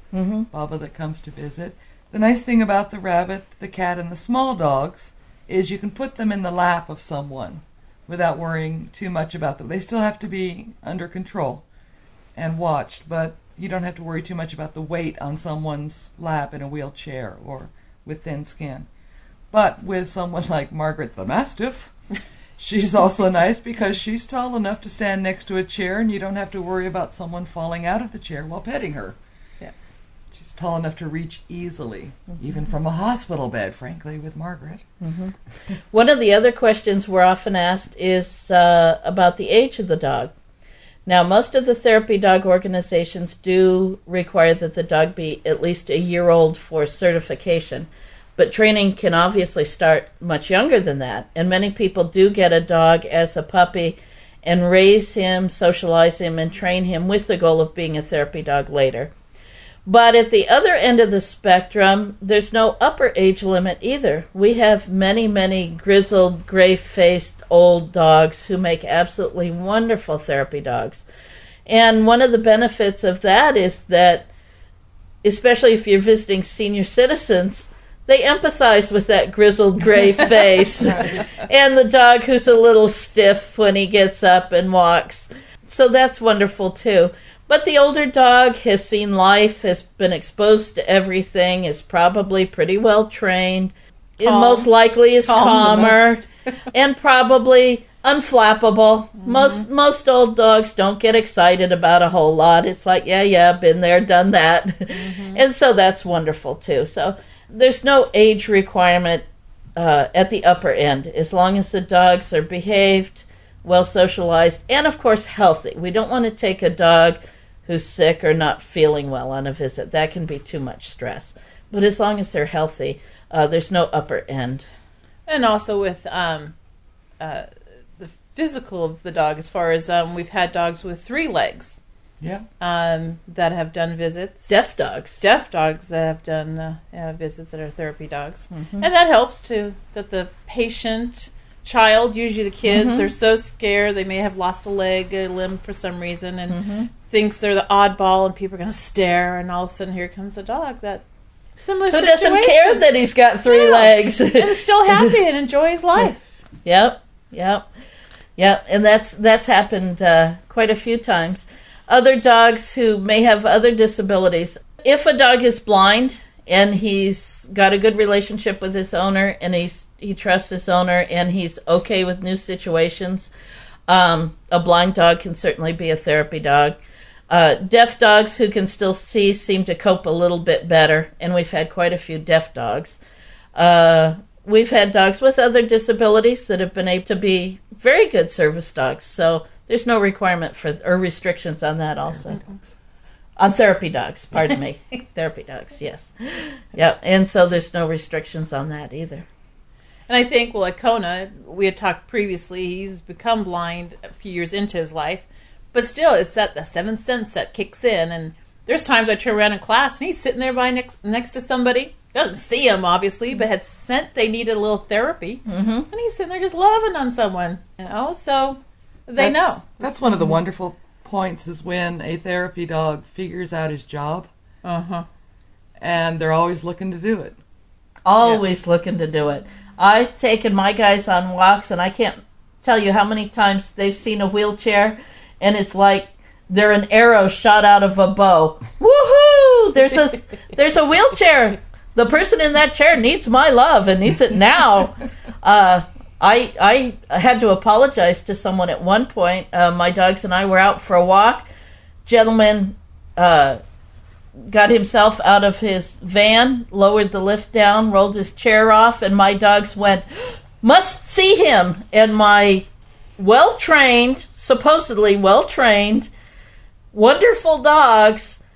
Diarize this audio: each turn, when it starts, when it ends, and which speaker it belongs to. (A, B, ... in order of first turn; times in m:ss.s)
0:00.1-0:00.5 A
0:00.5-0:11.6 B
0:12.4-0:18.9 B
0:19.5-0:21.9 B
0:22.6-0:29.2 B
0:30.3-0:34.9 B
0:35.0-0:35.3 A
0:35.9-0:40.3 A
0:41.1-0:59.1 A
0:59.9-1:11.0 A
1:11.7-1:14.3 A
1:15.2-1:36.2 A
1:20.8-1:21.2 B
1:34.2-1:34.7 C
1:35.2-1:36.3 C
1:36.7-1:49.2 A
1:39.2-1:39.6 C
1:44.9-1:45.4 C
1:49.8-2:04.7 A
2:05.3-2:06.5 C
2:07.2-2:11.8 C
2:12.2-2:12.5 B
2:12.6-2:14.5 C
2:14.5-2:15.2 A
2:15.2-2:31.0 C
2:18.5-2:18.9 A
2:22.7-2:23.1 A
2:26.5-2:26.9 A
2:31.6-2:32.8 C
2:31.9-2:35.1 A
2:33.5-2:36.3 C
2:36.6-2:37.7 A
2:38.4-2:53.3 A
2:53.9-2:56.8 A
2:57.3-3:03.0 A
3:03.6-3:12.4 A
3:12.3-3:12.6 B
3:13.4-3:19.3 A
3:20.1-3:39.8 C
3:35.5-3:35.9 A
3:39.2-3:44.3 B
3:44.6-3:45.1 C
3:45.8-3:47.4 B
3:48.1-4:11.5 A
4:12.1-4:13.6 A
4:14.5-4:20.1 A
4:20.6-4:22.7 A
4:23.2-4:26.1 A
4:26.9-4:28.4 A